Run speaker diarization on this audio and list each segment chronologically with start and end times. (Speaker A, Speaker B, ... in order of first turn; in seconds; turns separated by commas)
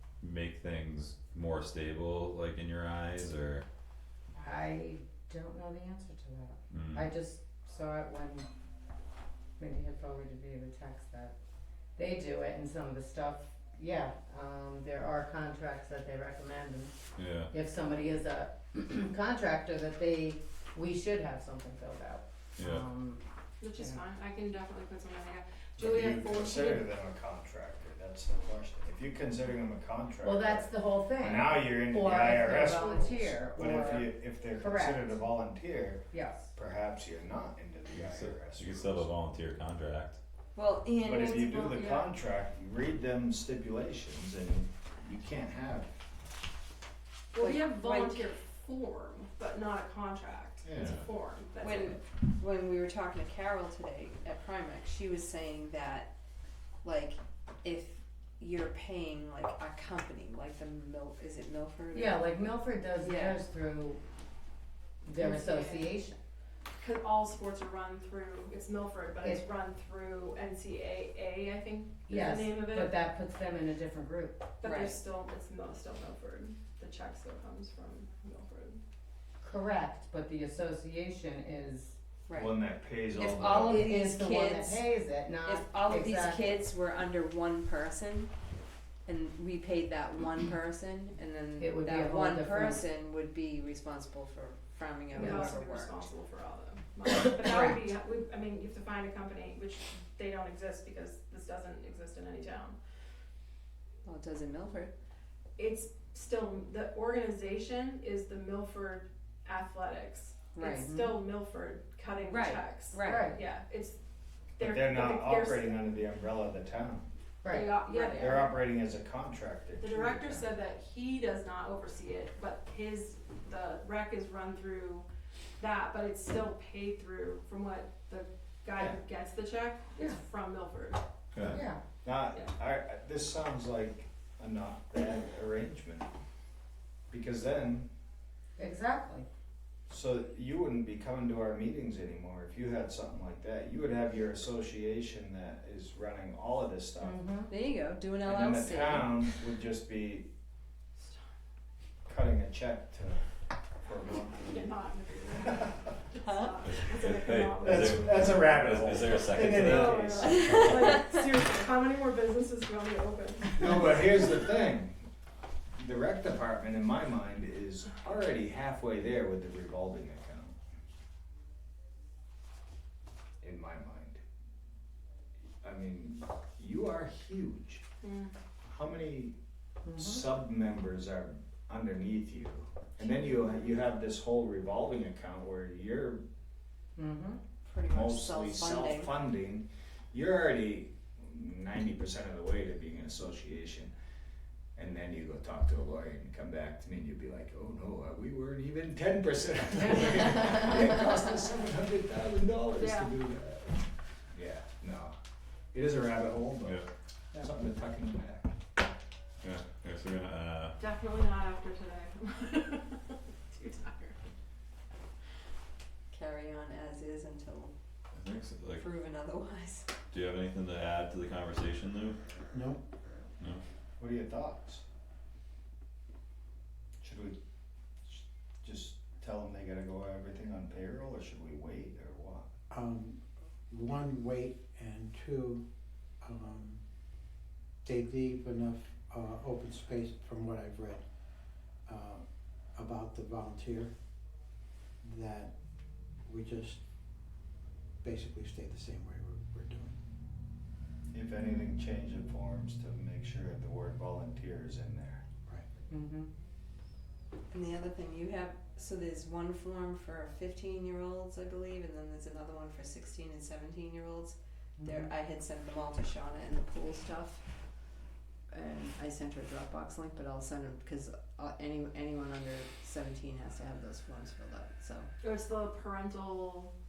Speaker A: 0.2-3.6, Speaker B: 4.4-8.5, Speaker A: 6.7-7.1, Speaker B: 9.6-11.3, Speaker B: 11.9-17.0, Speaker A: 17.1-17.5, Speaker B: 17.5-23.2, Speaker A: 22.6-22.8, Speaker C: 23.6-26.9, Speaker D: 25.8-30.7, Speaker B: 30.2-35.2, Speaker D: 31.2-39.1, Speaker B: 36.1-36.5, Speaker A: 37.9-40.2, Speaker E: 40.5-41.8, Speaker D: 41.0-45.9, Speaker C: 41.7-42.1, Speaker C: 47.3-52.0, Speaker E: 47.4-48.3, Speaker D: 50.6-50.9, Speaker E: 51.6-56.1, Speaker E: 56.8-62.2, Speaker B: 61.9-64.0, Speaker E: 63.0-63.4, Speaker B: 65.0-66.2, Speaker E: 65.2-65.8, Speaker C: 66.8-72.9, Speaker B: 72.1-74.5, Speaker C: 74.6-78.8, Speaker E: 74.6-75.0, Speaker B: 79.4-82.0, Speaker E: 82.3-82.5, Speaker D: 82.3-83.9, Speaker E: 83.1-84.9, Speaker B: 83.6-86.5, Speaker E: 85.4-88.3, Speaker E: 89.0-96.1, Speaker B: 91.6-92.9, Speaker C: 95.1-102.8, Speaker B: 95.2-95.5, Speaker E: 97.4-97.8, Speaker E: 104.0-104.9, Speaker C: 105.6-114.0, Speaker E: 110.5-110.9, Speaker B: 110.8-111.1, Speaker E: 112.2-113.3, Speaker B: 113.0-113.4, Speaker C: 114.6-115.8, Speaker D: 114.6-117.1, Speaker B: 117.4-118.1, Speaker C: 117.4-118.6, Speaker D: 118.1-120.4, Speaker C: 119.8-125.1, Speaker C: 125.6-131.0, Speaker A: 131.3-131.6, Speaker B: 131.5-131.8, Speaker D: 132.0-136.1, Speaker D: 137.1-137.9, Speaker B: 138.6-139.3, Speaker D: 139.9-147.2, Speaker B: 147.0-147.5, Speaker E: 147.5-149.2, Speaker D: 148.2-150.3, Speaker D: 152.1-153.2, Speaker D: 153.8-154.7, Speaker C: 154.3-158.4, Speaker A: 156.7-160.9, Speaker D: 157.6-160.8, Speaker C: 159.3-164.0, Speaker D: 163.6-165.0, Speaker D: 165.8-170.6, Speaker D: 173.4-174.2, Speaker D: 175.6-177.8, Speaker C: 178.0-178.3, Speaker D: 178.6-179.3, Speaker B: 179.8-180.3, Speaker D: 179.9-186.2, Speaker B: 186.9-187.4, Speaker E: 187.6-189.2, Speaker D: 187.8-193.9, Speaker D: 194.8-205.1, Speaker B: 199.8-200.7, Speaker C: 202.7-203.1, Speaker D: 205.7-208.5, Speaker A: 209.4-210.7, Speaker C: 210.8-214.2, Speaker E: 216.1-217.7, Speaker A: 218.2-218.8, Speaker E: 218.8-219.9, Speaker A: 220.1-222.2, Speaker F: 222.5-222.8, Speaker D: 224.0-224.8, Speaker D: 227.0-227.4, Speaker D: 228.1-232.5, Speaker F: 232.7-235.6, Speaker F: 236.2-236.8, Speaker F: 237.8-241.0, Speaker F: 241.8-243.9, Speaker F: 245.0-245.5, Speaker F: 246.2-246.8, Speaker F: 248.0-250.0, Speaker D: 251.1-255.2, Speaker B: 255.9-256.3, Speaker E: 257.5-267.4, Speaker B: 264.8-265.1, Speaker E: 268.5-275.1, Speaker C: 275.2-276.7